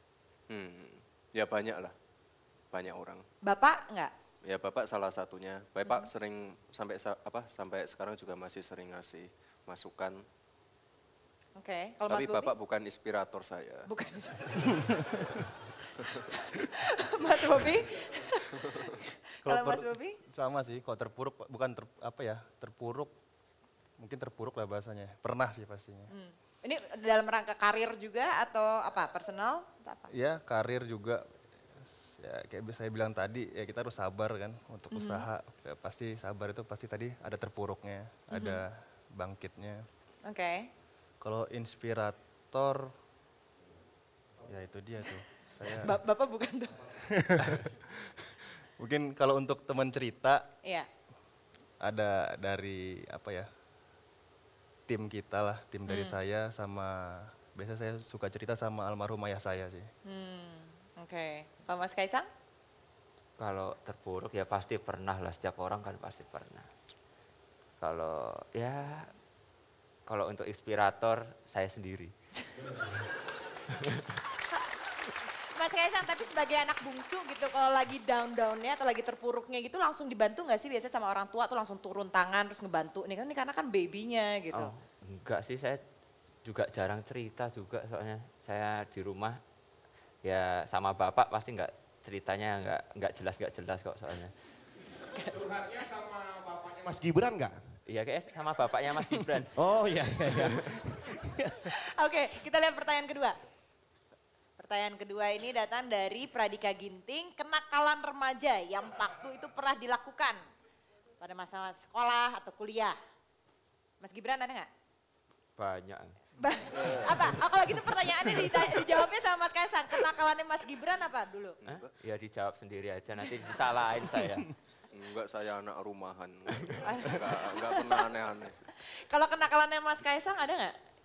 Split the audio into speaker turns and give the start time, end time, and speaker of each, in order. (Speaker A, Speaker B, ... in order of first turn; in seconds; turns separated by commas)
Speaker A: 0.5-1.9, Speaker A: 2.7-3.2, Speaker B: 3.4-4.1, Speaker A: 4.4-10.2, Speaker B: 11.6-12.5, Speaker A: 12.1-13.9, Speaker B: 13.9-14.9, Speaker B: 16.3-20.1, Speaker C: 19.4-23.1, Speaker C: 24.0-26.1, Speaker B: 26.1-30.1, Speaker C: 30.1-39.8, Speaker B: 34.9-35.2, Speaker B: 40.2-40.7, Speaker C: 41.2-42.9, Speaker C: 44.4-46.0, Speaker B: 45.7-46.9, Speaker C: 47.1-50.5, Speaker C: 51.8-53.5, Speaker C: 54.9-59.9, Speaker B: 55.9-56.1, Speaker B: 60.0-62.3, Speaker D: 63.4-66.7, Speaker D: 67.8-69.1, Speaker D: 70.1-72.1, Speaker B: 74.5-84.7, Speaker D: 84.5-85.8, Speaker D: 86.4-89.4, Speaker D: 90.2-94.3, Speaker E: 95.3-97.5, Speaker D: 97.9-99.6, Speaker E: 99.5-101.5, Speaker B: 101.7-103.4, Speaker B: 104.6-110.4, Speaker B: 111.2-113.0, Speaker B: 114.0-114.7, Speaker D: 115.6-116.2, Speaker B: 116.4-121.6, Speaker A: 116.8-117.3, Speaker A: 121.6-121.9, Speaker D: 121.7-124.5, Speaker A: 124.9-128.7, Speaker B: 126.8-128.0, Speaker B: 129.0-130.7